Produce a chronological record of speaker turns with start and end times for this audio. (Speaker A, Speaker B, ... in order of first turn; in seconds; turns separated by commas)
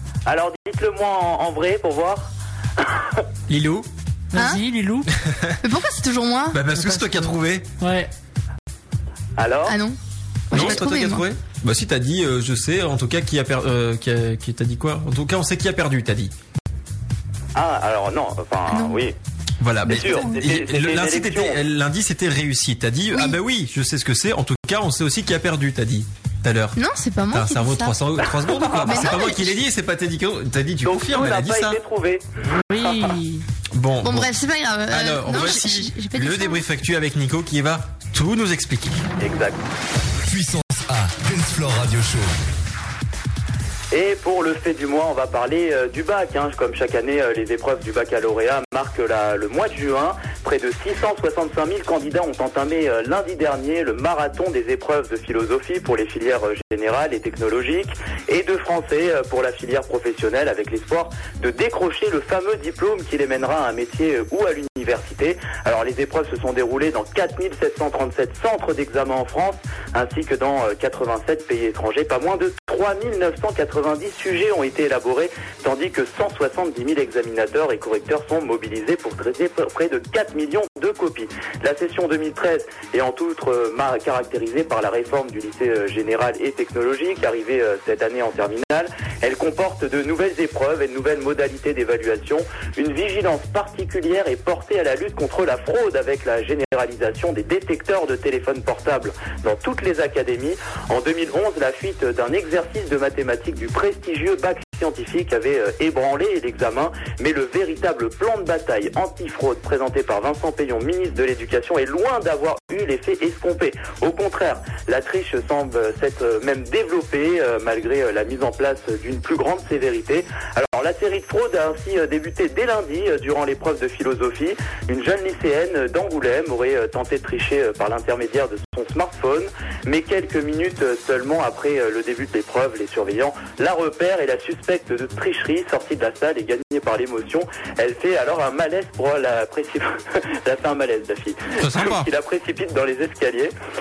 Speaker A: 0.3-2.2, Speaker A: 2.8-3.2, Speaker B: 3.5-3.9, Speaker C: 4.3-5.1, Speaker D: 4.4-4.6, Speaker B: 5.1-5.6, Speaker D: 5.6-6.7, Speaker B: 6.5-7.7, Speaker C: 6.7-8.1, Speaker A: 9.4-9.8, Speaker D: 9.7-10.0, Speaker D: 10.5-11.2, Speaker B: 10.5-16.3, Speaker A: 17.6-19.1, Speaker D: 18.7-19.0, Speaker B: 19.6-26.8, Speaker D: 19.9-20.3, Speaker A: 19.9-21.6, Speaker D: 23.1-23.4, Speaker D: 26.8-28.0, Speaker B: 27.3-31.8, Speaker A: 28.4-29.1, Speaker D: 28.7-29.5, Speaker A: 30.9-32.2, Speaker C: 32.6-33.4, Speaker A: 32.8-33.1, Speaker B: 33.7-34.3, Speaker D: 34.0-36.6, Speaker B: 34.9-39.0, Speaker A: 39.2-39.6, Speaker E: 40.3-42.3, Speaker A: 43.9-143.5, Speaker B: 141.6-142.1